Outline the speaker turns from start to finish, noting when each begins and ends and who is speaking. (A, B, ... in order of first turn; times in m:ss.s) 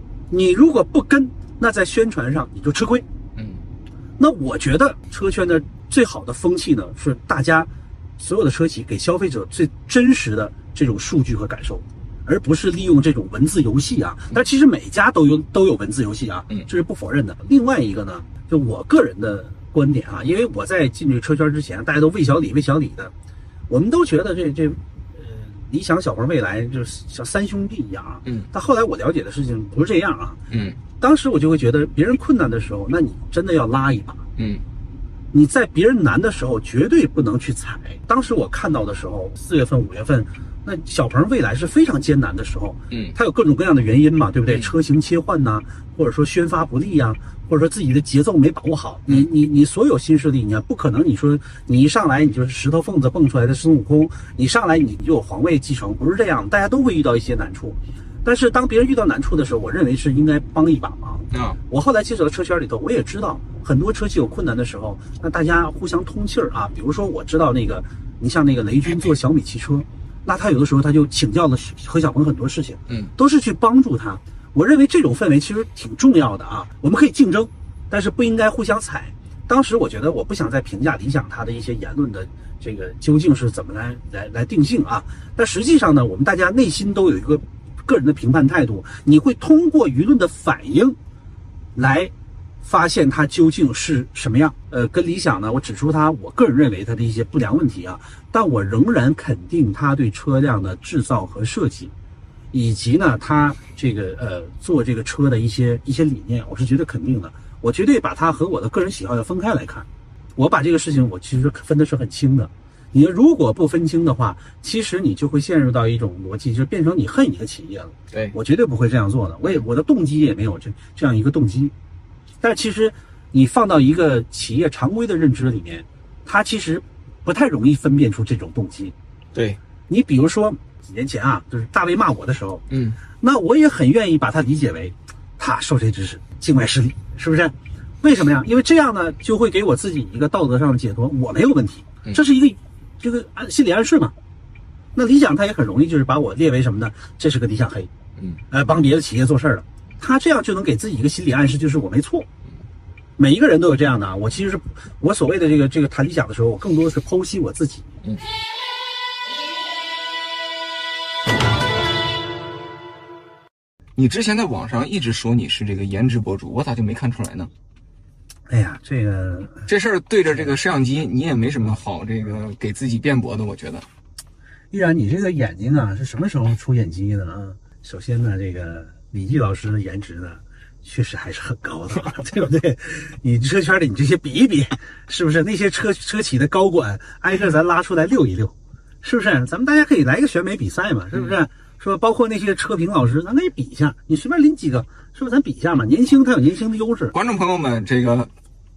0:00.3-0:03.0 A
0:03.4-0:03.6 B
0:04.2-0:23.1 A
0:23.7-0:30.4 A
0:30.5-0:30.8 B
0:31.0-0:34.2 A
0:34.4-0:34.6 B
0:35.3-1:31.0 A
0:42.9-0:43.2 B
0:44.5-0:44.7 B
1:01.3-1:01.6 B
1:31.7-1:32.1 A
1:32.6-1:41.9 A
1:42.5-1:49.8 A
1:50.4-2:01.7 A
2:02.4-2:08.9 A
2:09.3-2:09.6 B
2:09.9-2:12.6 A
2:12.7-2:13.0 B
2:13.2-2:24.1 A
2:24.9-2:27.9 A
2:28.5-2:32.3 A
2:33.2-2:37.9 A
2:44.0-2:47.5 B
2:48.5-2:49.7 A
2:49.7-2:53.8 B
2:54.7-3:17.1 A
3:17.1-3:18.3 B